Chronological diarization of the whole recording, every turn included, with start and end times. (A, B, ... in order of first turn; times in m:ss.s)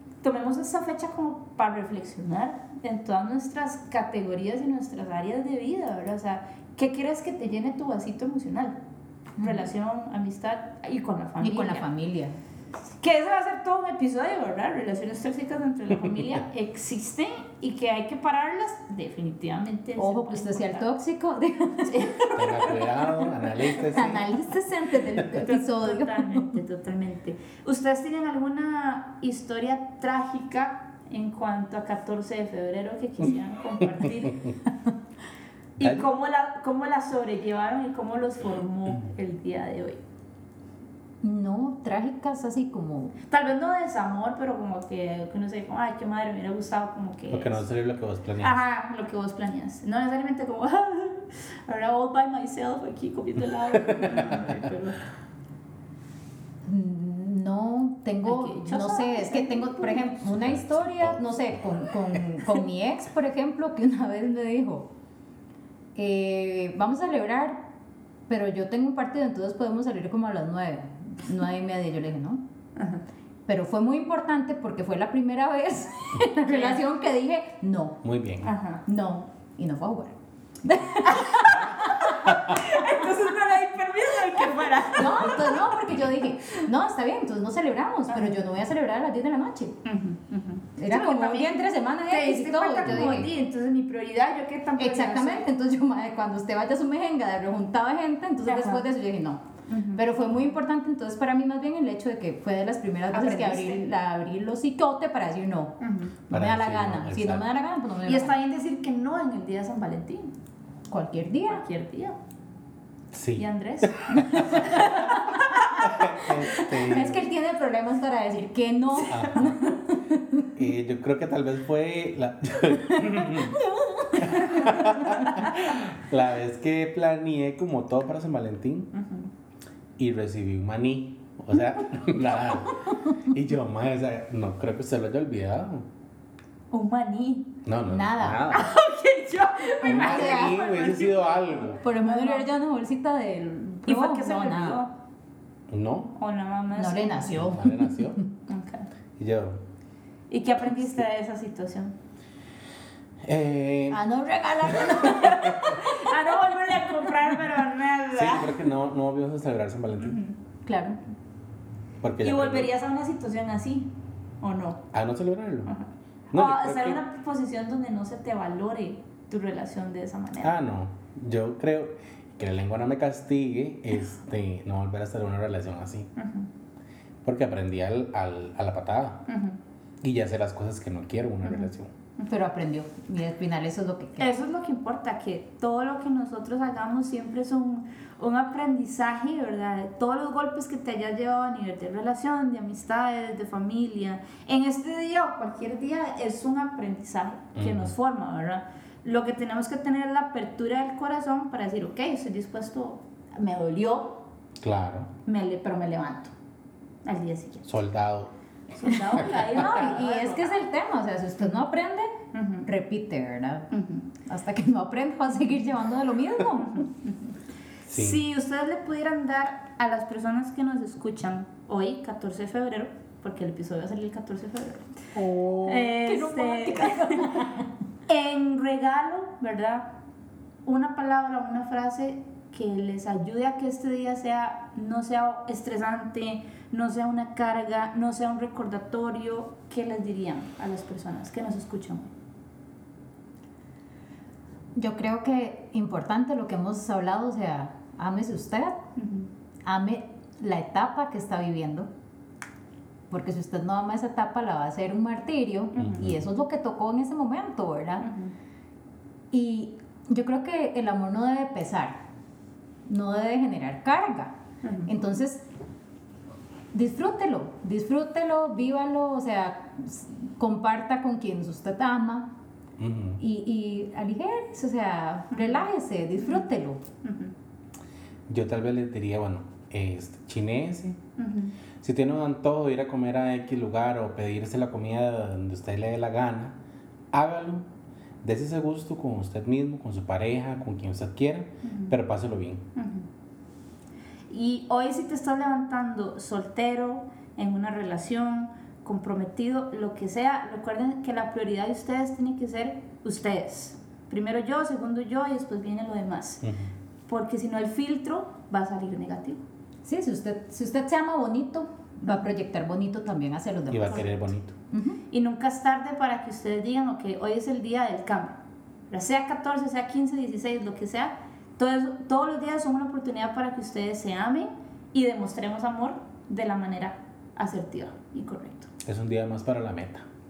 0:00.2-0:08.8 A
0:09.4-0:09.6 B
0:09.4-0:11.8 A
0:11.4-0:12.4 B
0:13.0-0:20.9 A
0:20.0-0:22.2 B
0:21.9-0:23.5 A
0:22.3-0:24.3 C
0:23.9-0:26.5 B
0:25.4-0:34.4 A
0:35.8-0:40.0 A
0:35.8-0:36.0 C
0:41.2-0:43.2 B
0:43.3-0:47.6 A
0:47.3-0:48.6 C
0:48.4-0:55.0 A
0:53.9-0:54.4 C
0:56.6-1:04.9 B
0:58.2-1:00.2 A
1:00.2-1:01.3 C
1:05.9-1:07.6 B
1:08.3-1:12.4 B
1:12.8-1:13.0 A
1:13.4-1:18.0 B
1:16.4-1:16.8 A
1:18.0-1:18.5 C
1:18.4-1:18.8 A
1:18.8-1:22.3 B
1:21.0-1:25.6 A
1:24.9-1:29.8 B
1:28.1-1:28.4 A
1:29.8-1:35.5 A
1:30.8-1:33.3 B
1:34.8-1:39.4 B
1:38.4-1:38.8 A
1:39.7-1:40.0 A
1:39.9-1:48.3 B
1:43.1-1:43.8 A
1:45.8-1:46.2 A
1:46.3-1:47.4 C
1:48.0-1:50.3 A
1:50.9-1:51.6 B
1:51.5-1:52.2 A
1:53.1-1:54.9 C
1:53.4-1:56.8 A
1:55.4-1:55.8 B
1:55.8-1:57.2 C
1:56.5-2:00.6 B
1:59.0-1:59.5 A
1:59.1-1:59.6 C
2:00.6-2:03.6 C
2:02.9-2:05.2 B
2:04.2-2:08.9 C
2:04.3-2:05.5 A
2:08.9-2:09.3 A
2:10.0-2:15.8 C
2:16.7-2:17.6 A
2:17.6-2:18.7 C
2:17.9-2:18.5 B
2:18.5-2:22.4 A
2:19.8-2:20.6 B
2:19.8-2:21.8 C
2:21.8-2:24.8 B
2:23.8-2:24.9 A
2:25.7-2:26.1 C
2:26.2-2:27.3 A
2:26.8-2:28.2 B
2:27.2-2:28.2 C
2:28.5-2:28.9 A
2:29.2-2:29.6 C
2:30.3-2:31.9 A
2:33.2-2:34.1 C
2:33.9-2:35.7 B
2:34.6-2:35.7 C
2:35.4-2:38.6 A
2:38.1-2:40.2 C
2:40.0-2:40.3 A
2:40.6-2:41.0 B
2:42.0-2:42.7 C
2:42.2-2:44.8 A
2:44.9-2:45.7 C
2:45.6-2:50.5 A
2:46.3-2:47.0 C
2:50.4-2:56.1 C
2:56.2-2:56.5 A
2:57.2-2:59.2 C
2:59.3-2:59.6 A
3:00.0-3:01.9 C
3:01.4-3:02.3 A
3:02.3-3:04.3 B
3:04.2-3:24.2 A
3:17.6-3:17.9 C
3:24.6-3:25.1 C
3:25.2-3:26.3 A
3:27.0-3:27.7 A
3:27.6-3:28.3 C
3:28.7-3:30.6 A
3:28.8-3:29.4 C
3:29.4-3:33.7 B
3:32.3-3:32.7 A
3:33.7-3:34.1 A
3:34.2-3:36.8 B
3:36.6-3:37.3 A
3:37.9-3:38.2 C
3:37.9-3:45.0 A
3:45.2-3:47.6 B
3:45.6-3:47.5 A
3:48.1-3:49.9 A
3:50.6-4:02.1 A
4:04.8-4:08.8 B
4:09.0-4:09.3 A
4:09.6-4:11.9 B
4:13.1-4:18.1 B
4:15.8-4:16.0 A
4:15.8-4:16.2 C
4:18.0-4:18.3 A
4:19.3-4:22.0 B
4:22.8-4:24.3 B
4:24.6-4:24.9 A
4:24.8-4:25.4 B
4:26.7-4:32.3 B
4:32.8-4:33.2 C
4:33.2-4:36.8 B
4:35.3-4:35.6 A
4:36.2-4:36.4 A
4:37.0-4:37.3 A
4:38.3-4:41.0 C
4:41.2-4:41.5 A
4:41.8-4:46.6 C
4:47.1-4:47.6 C
4:48.2-4:52.6 C
4:51.6-4:51.9 A
4:52.8-4:53.1 A
4:54.3-5:06.4 A
5:06.4-5:06.7 C
5:07.1-5:09.4 A
5:09.8-5:14.1 B
5:13.7-5:14.5 C
5:14.7-5:15.0 B
5:15.1-5:18.4 A
5:18.9-5:28.7 A
5:28.8-5:30.0 C